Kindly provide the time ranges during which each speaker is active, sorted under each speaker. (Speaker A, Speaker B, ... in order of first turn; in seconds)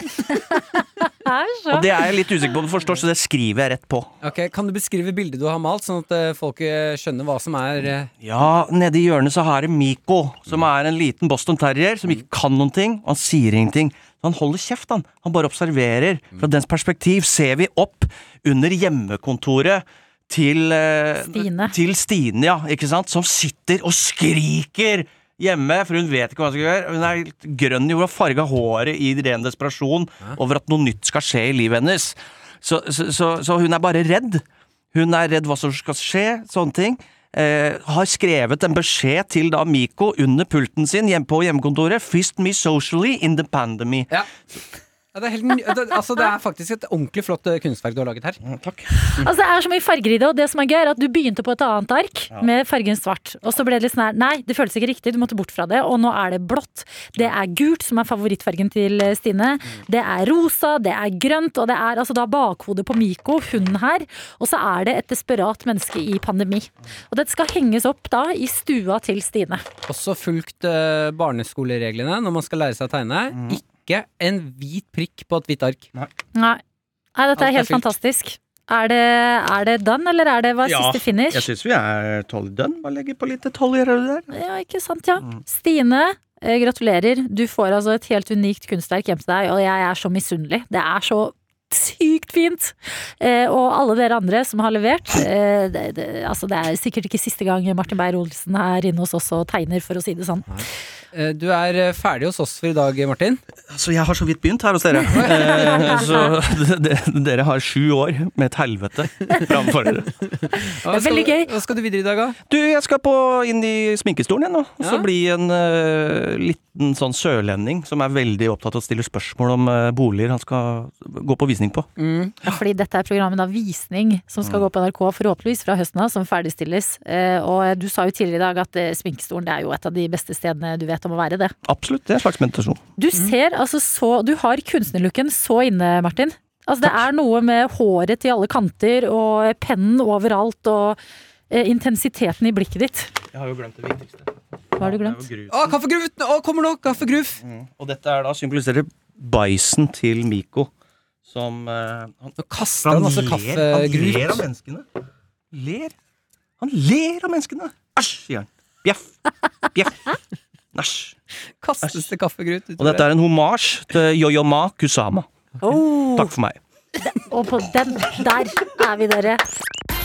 Speaker A: 0.3-1.9, 21.2-21.7, 49.2-69.6, 76.3-76.6, 77.2-81.4, 84.3-100.5, 105.2-106.3, 110.8-111.5, 122.4-131.5, 133.0-141.0, 141.5-143.1, 144.8-145.2, 165.6-166.3, 167.0-169.4
Speaker B: 1.7-4.1, 8.2-44.1, 48.4-48.9, 73.3-73.6, 80.6-84.3, 103.7-110.1, 112.5-121.9, 131.7-132.8, 143.3-145.8, 147.4-150.7, 151.2-154.8, 155.5-155.9, 156.6-159.1, 159.7-160.1, 160.7-161.2, 162.8-165.3, 166.1-166.6
Speaker C: 4.2-8.1, 45.1-48.4, 69.9-75.9, 77.4-77.9, 100.5-103.4, 105.1-106.2, 110.2-112.4, 114.8-115.1, 122.0-122.3, 145.5-147.4, 152.4-154.4, 161.6-163.1